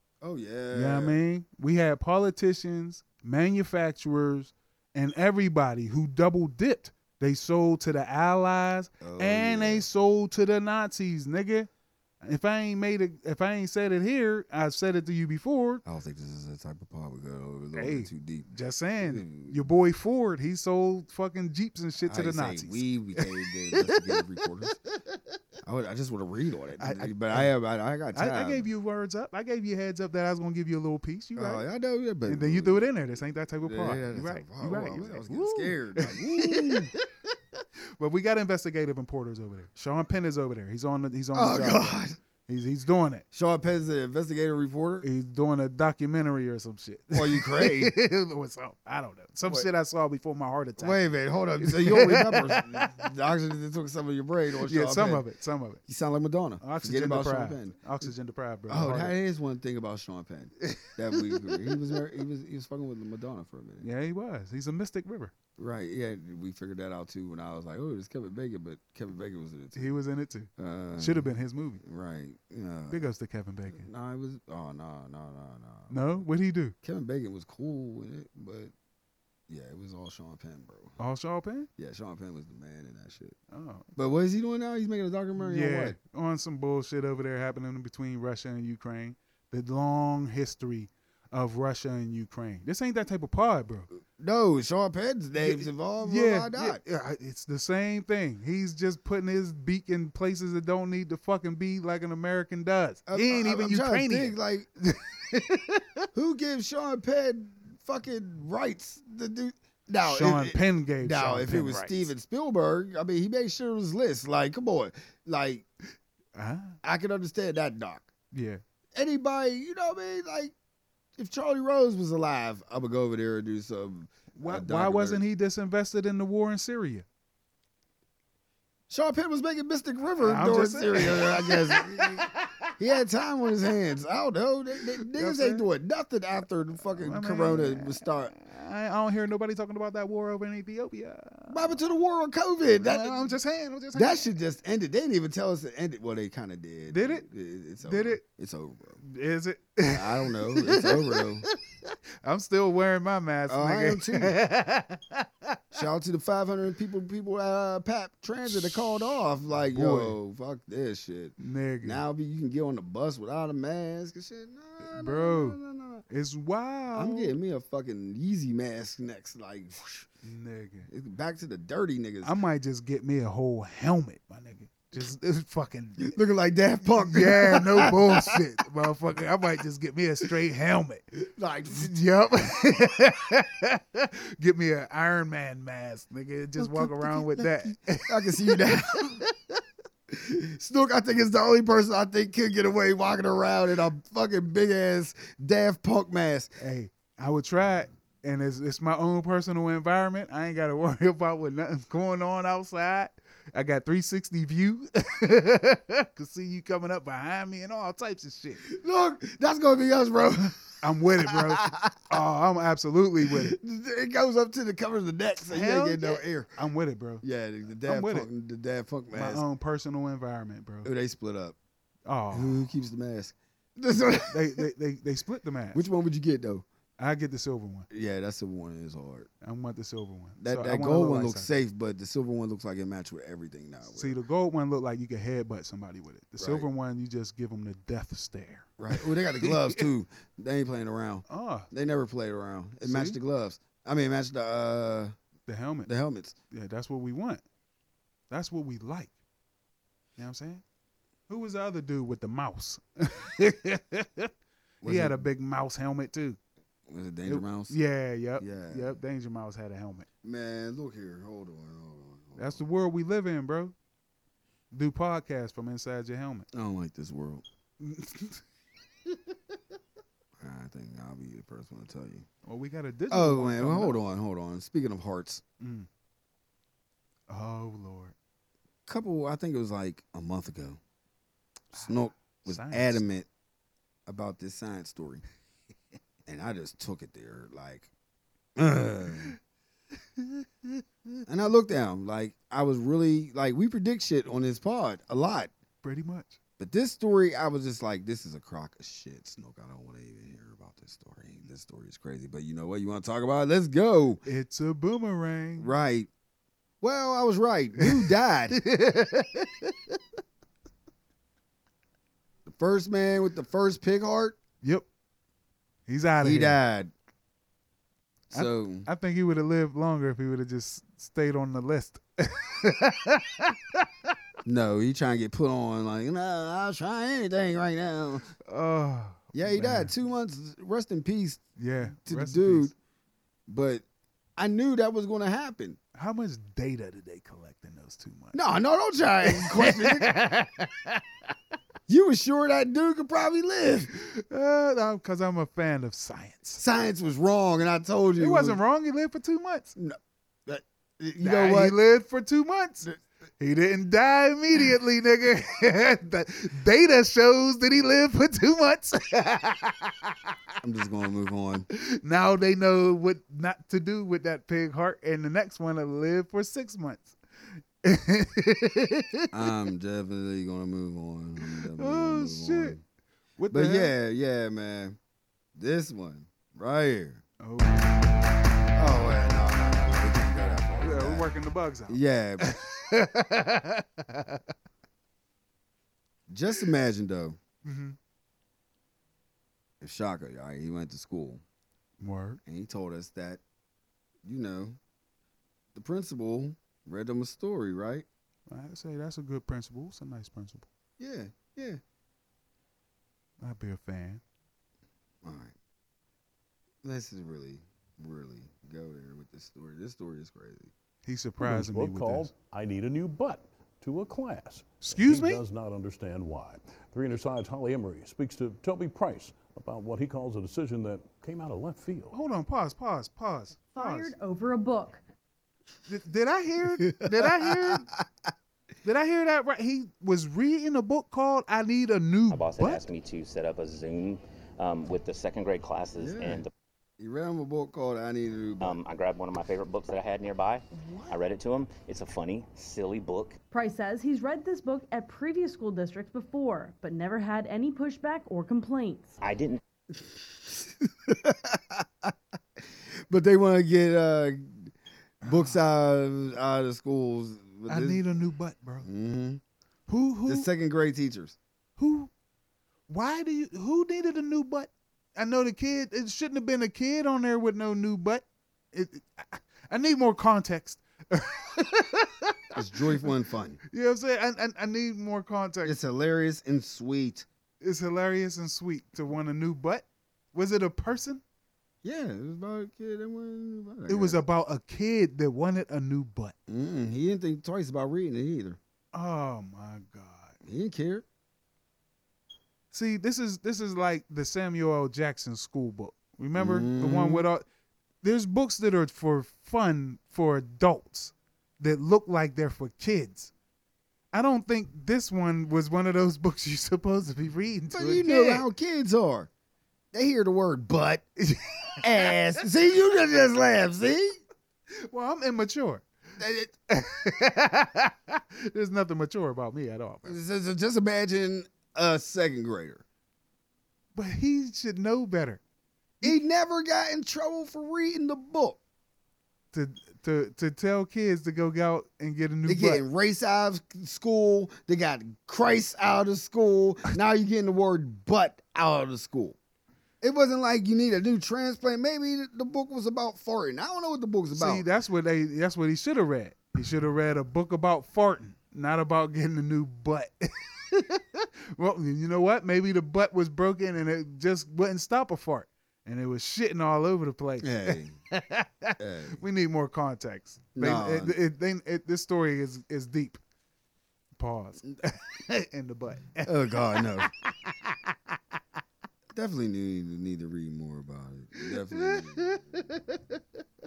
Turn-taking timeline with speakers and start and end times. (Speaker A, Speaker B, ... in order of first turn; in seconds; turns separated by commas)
Speaker A: 0.2-1.2, Speaker B: 0.7-11.7, Speaker A: 9.0-9.9, Speaker B: 12.2-15.8, Speaker A: 15.8-18.5, Speaker B: 17.8-25.2, Speaker A: 19.0-19.7, Speaker A: 22.0-24.8, Speaker A: 25.6-28.7, Speaker B: 26.8-27.5, Speaker B: 28.1-31.6, Speaker A: 31.4-32.9, Speaker B: 32.3-37.0, Speaker A: 33.6-36.9, Speaker B: 37.6-43.2, Speaker A: 41.3-42.2, Speaker A: 43.3-45.1, Speaker B: 45.0-51.0, Speaker A: 47.1-47.9, Speaker A: 49.4-49.7, Speaker A: 50.8-55.2, Speaker B: 51.6-53.0, Speaker B: 54.6-55.8, Speaker A: 55.9-58.1, Speaker B: 56.6-59.2, Speaker A: 58.7-63.9, Speaker B: 60.7-61.5, Speaker B: 63.8-65.3, Speaker A: 65.6-69.9, Speaker B: 69.8-71.8, Speaker A: 70.6-73.1, Speaker B: 72.9-73.9, Speaker A: 73.7-76.0, Speaker B: 75.9-76.8, Speaker A: 76.8-78.7, Speaker A: 79.5-81.0, Speaker B: 81.0-81.7, Speaker A: 81.8-83.4, Speaker B: 83.5-83.9, Speaker A: 84.0-86.0, Speaker B: 85.4-93.9, Speaker A: 94.0-96.8, Speaker B: 95.4-105.8, Speaker A: 103.1-104.7, Speaker A: 106.1-115.7, Speaker B: 110.0-112.1, Speaker B: 116.3-116.8, Speaker A: 116.8-118.1, Speaker B: 118.3-118.6, Speaker A: 119.0-120.5, Speaker A: 121.2-125.2, Speaker B: 124.3-127.1, Speaker A: 128.9-138.3, Speaker B: 130.2-132.6, Speaker B: 135.0-135.7, Speaker B: 137.0-141.8, Speaker A: 141.5-143.3, Speaker B: 142.8-144.3, Speaker A: 143.9-149.0, Speaker B: 146.9-147.3, Speaker B: 147.8-148.2, Speaker B: 149.0-155.6, Speaker A: 149.9-151.5, Speaker A: 153.5-154.4, Speaker A: 155.7-166.1, Speaker B: 158.5-159.2, Speaker B: 159.7-160.2, Speaker B: 161.4-162.0, Speaker B: 164.8-167.4, Speaker A: 166.9-170.1, Speaker B: 170.2-170.9, Speaker A: 170.9-172.4, Speaker B: 172.2-176.2, Speaker A: 176.0-178.4, Speaker B: 177.0-181.1, Speaker A: 181.1-181.9, Speaker B: 181.7-189.2, Speaker A: 186.6-189.2, Speaker A: 190.1-196.6, Speaker B: 196.6-208.7, Speaker A: 208.7-212.1, Speaker B: 210.8-213.6, Speaker A: 213.2-216.6, Speaker B: 215.4-217.2, Speaker A: 217.2-219.4, Speaker B: 217.8-218.3, Speaker B: 219.1-220.9, Speaker A: 220.8-221.6, Speaker B: 222.1-222.7, Speaker A: 222.3-224.7, Speaker B: 224.3-225.8, Speaker A: 225.7-226.7, Speaker B: 227.0-227.9, Speaker A: 227.9-229.3, Speaker B: 229.4-231.6, Speaker A: 230.4-234.2, Speaker B: 233.9-239.9, Speaker A: 236.4-236.7, Speaker A: 238.8-245.1, Speaker B: 241.3-241.7, Speaker B: 242.8-243.2, Speaker B: 245.5-245.9, Speaker A: 245.8-246.4, Speaker B: 246.5-247.4, Speaker B: 248.3-249.1, Speaker B: 250.2-250.6, Speaker B: 251.3-254.3, Speaker A: 254.8-255.3, Speaker B: 254.8-256.4, Speaker A: 256.9-257.8, Speaker B: 257.3-260.1, Speaker A: 258.4-259.0, Speaker A: 260.2-262.6, Speaker B: 262.4-263.7, Speaker B: 264.7-266.5, Speaker A: 266.5-267.4, Speaker B: 267.8-268.4, Speaker A: 270.4-272.3, Speaker B: 272.4-274.0, Speaker A: 273.1-275.4, Speaker B: 275.6-275.9, Speaker B: 277.3-278.1, Speaker A: 278.9-280.8, Speaker B: 281.7-283.0, Speaker A: 281.7-283.3, Speaker A: 284.1-285.2, Speaker A: 286.3-287.9, Speaker A: 288.6-289.4, Speaker B: 290.2-290.8, Speaker A: 291.3-295.5, Speaker B: 295.8-296.4, Speaker A: 296.6-304.2, Speaker B: 304.2-305.7, Speaker A: 305.6-306.1, Speaker A: 306.8-308.6, Speaker B: 307.8-309.9, Speaker A: 312.5-314.4, Speaker B: 315.9-316.6, Speaker A: 316.2-316.9, Speaker A: 318.3-318.9, Speaker B: 318.3-323.9, Speaker A: 324.4-328.3, Speaker B: 328.5-329.9, Speaker A: 329.3-332.7, Speaker B: 331.6-332.7, Speaker A: 333.5-333.8, Speaker A: 334.4-335.8, Speaker B: 335.9-338.4, Speaker A: 338.3-340.1, Speaker B: 339.2-341.0, Speaker A: 341.9-343.9, Speaker B: 343.9-346.6, Speaker A: 346.6-348.6, Speaker B: 348.2-349.8, Speaker A: 349.8-351.8, Speaker B: 351.2-352.9, Speaker B: 353.4-360.1, Speaker A: 360.6-361.7, Speaker B: 361.7-367.2, Speaker B: 367.8-369.2, Speaker A: 369.3-372.8, Speaker B: 371.4-372.8, Speaker B: 373.4-373.9, Speaker A: 373.5-375.0, Speaker A: 375.6-377.2, Speaker B: 377.4-378.1, Speaker A: 378.8-381.3, Speaker B: 380.8-384.4, Speaker A: 381.9-382.6, Speaker A: 386.3-387.4, Speaker B: 387.6-388.0, Speaker A: 389.8-391.4, Speaker B: 392.0-392.4, Speaker A: 392.4-393.4, Speaker A: 394.2-394.8, Speaker A: 395.8-398.1, Speaker B: 398.5-400.7, Speaker A: 401.0-401.8, Speaker B: 403.4-404.2, Speaker A: 405.2-405.6, Speaker A: 406.8-410.7, Speaker B: 411.0-412.3, Speaker C: 411.4-422.1, Speaker B: 414.8-415.4, Speaker B: 422.1-424.1, Speaker D: 423.7-425.0, Speaker B: 425.9-427.9, Speaker A: 426.8-428.1, Speaker B: 428.8-432.9, Speaker E: 432.3-436.5, Speaker A: 436.0-436.4, Speaker A: 437.0-438.8, Speaker E: 438.6-443.4, Speaker A: 440.7-441.2, Speaker D: 443.5-449.2, Speaker E: 449.2-449.6, Speaker A: 449.9-452.1, Speaker A: 453.1-458.0, Speaker B: 455.2-455.6, Speaker B: 457.7-458.9, Speaker A: 458.8-459.4, Speaker B: 459.9-460.5, Speaker A: 460.3-461.4, Speaker B: 461.8-462.1, Speaker B: 462.9-472.4, Speaker A: 472.6-473.6, Speaker B: 473.7-475.8, Speaker A: 475.6-477.3, Speaker B: 477.6-481.2, Speaker A: 481.8-484.2, Speaker B: 483.9-486.3, Speaker A: 486.5-488.6, Speaker B: 488.9-490.4, Speaker A: 490.4-491.1, Speaker B: 492.7-497.4, Speaker A: 496.4-497.3, Speaker B: 498.0-503.3, Speaker B: 504.1-508.5, Speaker A: 507.7-509.3, Speaker A: 509.9-511.1, Speaker B: 511.3-512.1, Speaker A: 511.8-514.2, Speaker B: 514.9-515.9, Speaker A: 516.2-516.5, Speaker B: 516.7-520.2, Speaker A: 520.0-522.8, Speaker B: 524.0-525.4, Speaker A: 526.0-528.6, Speaker B: 529.5-532.8, Speaker A: 532.5-539.4, Speaker A: 540.0-544.6, Speaker B: 544.3-563.2, Speaker A: 557.4-558.0, Speaker A: 558.8-559.2, Speaker A: 560.6-561.2, Speaker B: 564.2-567.8, Speaker A: 566.2-567.1, Speaker A: 569.1-572.6, Speaker B: 571.4-573.2